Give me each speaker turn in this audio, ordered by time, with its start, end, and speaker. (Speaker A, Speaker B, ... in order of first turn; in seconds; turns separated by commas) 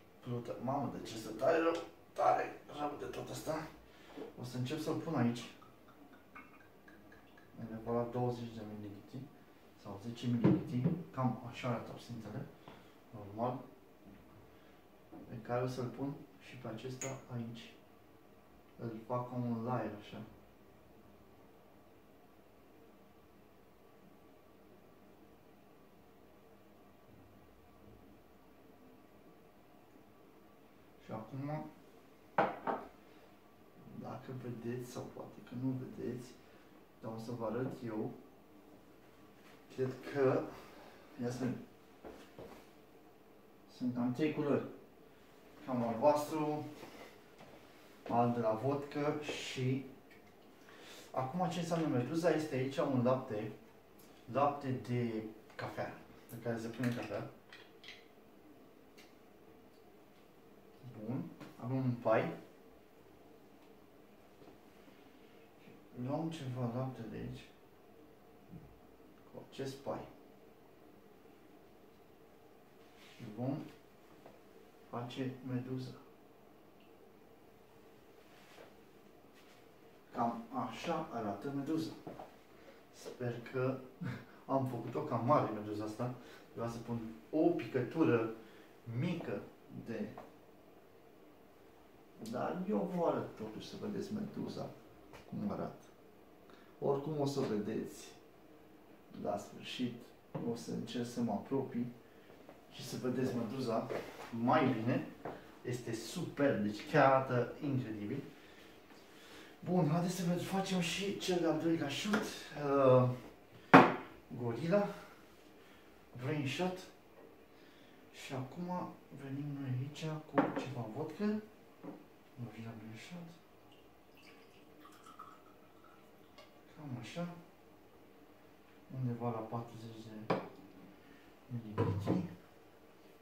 Speaker A: 0.2-3.7, Speaker A: 4.3-5.5, Speaker A: 7.5-12.5, Speaker A: 13.1-13.6, Speaker A: 15.2-17.8, Speaker A: 18.8-20.2, Speaker A: 31.0-31.6, Speaker A: 33.8-36.3, Speaker A: 37.0-38.1, Speaker A: 39.7-41.6, Speaker A: 43.7-44.7, Speaker A: 45.6-46.6, Speaker A: 48.1-49.9, Speaker A: 51.1-53.5, Speaker A: 54.3-57.3, Speaker A: 60.8-62.3, Speaker A: 65.8-67.5, Speaker A: 69.3-70.1, Speaker A: 73.2-73.6, Speaker A: 74.9-76.0, Speaker A: 80.1-82.0, Speaker A: 82.9-88.3, Speaker A: 88.8-90.2, Speaker A: 92.2-94.7, Speaker A: 95.3-95.9, Speaker A: 96.8-98.2, Speaker A: 99.1-101.9, Speaker A: 102.7-105.1, Speaker A: 105.6-108.2, Speaker A: 109.6-113.1, Speaker A: 114.3-115.0, Speaker A: 116.1-116.9, Speaker A: 118.1-121.4, Speaker A: 122.4-123.3, Speaker A: 126.7-127.3, Speaker A: 128.9-130.3, Speaker A: 131.5-132.3